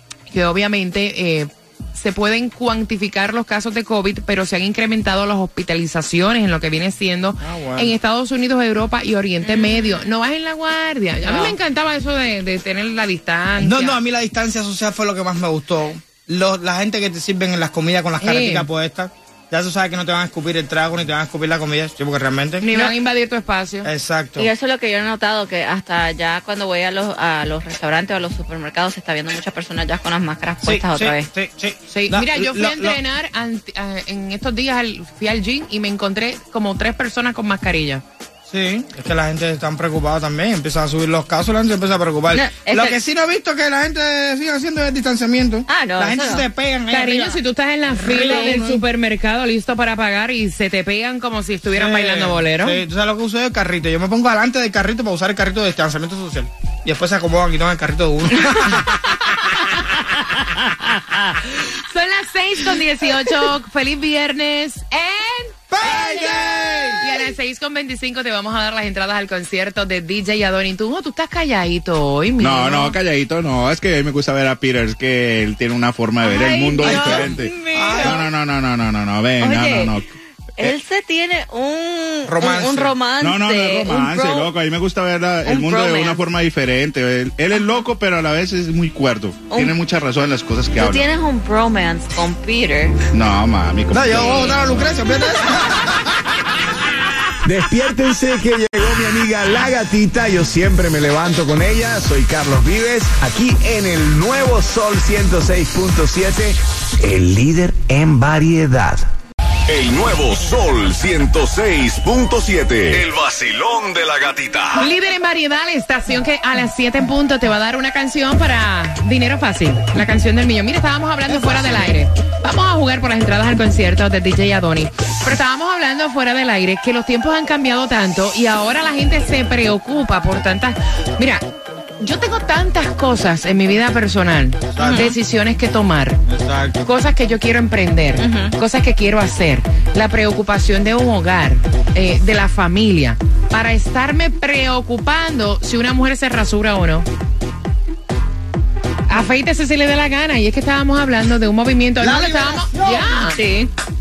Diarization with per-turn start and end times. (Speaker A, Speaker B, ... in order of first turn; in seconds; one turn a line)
Speaker A: 0.3-14.0
Speaker B: 7.4-7.9
Speaker C: 9.4-10.0
Speaker C: 11.2-11.5
Speaker B: 13.6-22.9
Speaker A: 18.2-18.7
Speaker A: 22.6-23.9
Speaker B: 23.8-24.5
Speaker C: 24.4-31.3
Speaker B: 30.6-33.0
Speaker A: 31.9-38.0
Speaker B: 38.5-47.4
Speaker C: 42.3-43.0
Speaker C: 45.7-46.5
Speaker A: 46.9-52.8
Speaker B: 48.0-48.8
Speaker C: 48.1-48.6
Speaker B: 51.7-59.0
Speaker A: 59.3-60.0
Speaker A: 61.3-66.3
Speaker B: 65.7-67.1
Speaker A: 67.0-73.0
Speaker D: 72.4-80.0
Speaker C: 76.2-78.2
Speaker A: 76.5-77.2
Speaker B: 76.8-78.2
Speaker C: 79.4-80.0
Speaker C: 80.6-84.5
Speaker B: 82.2-82.9
Speaker D: 83.2-91.0
Speaker C: 85.5-86.2
Speaker C: 90.8-93.0
Speaker D: 93.1-95.0
Speaker B: 93.9-96.2
Speaker C: 94.2-94.6
Speaker E: 97.5-109.0
Speaker F: 109.7-114.9
Speaker A: 114.7-131.4
Speaker B: 121.3-121.9
Speaker A: 132.0-136.2
Speaker B: 134.7-135.1
Speaker C: 134.8-135.2
Speaker B: 136.3-136.9
Speaker A: 136.8-147.1
Speaker C: 138.2-138.5
Speaker A: 149.1-153.4
Speaker B: 152.0-153.3
Speaker C: 153.3-153.7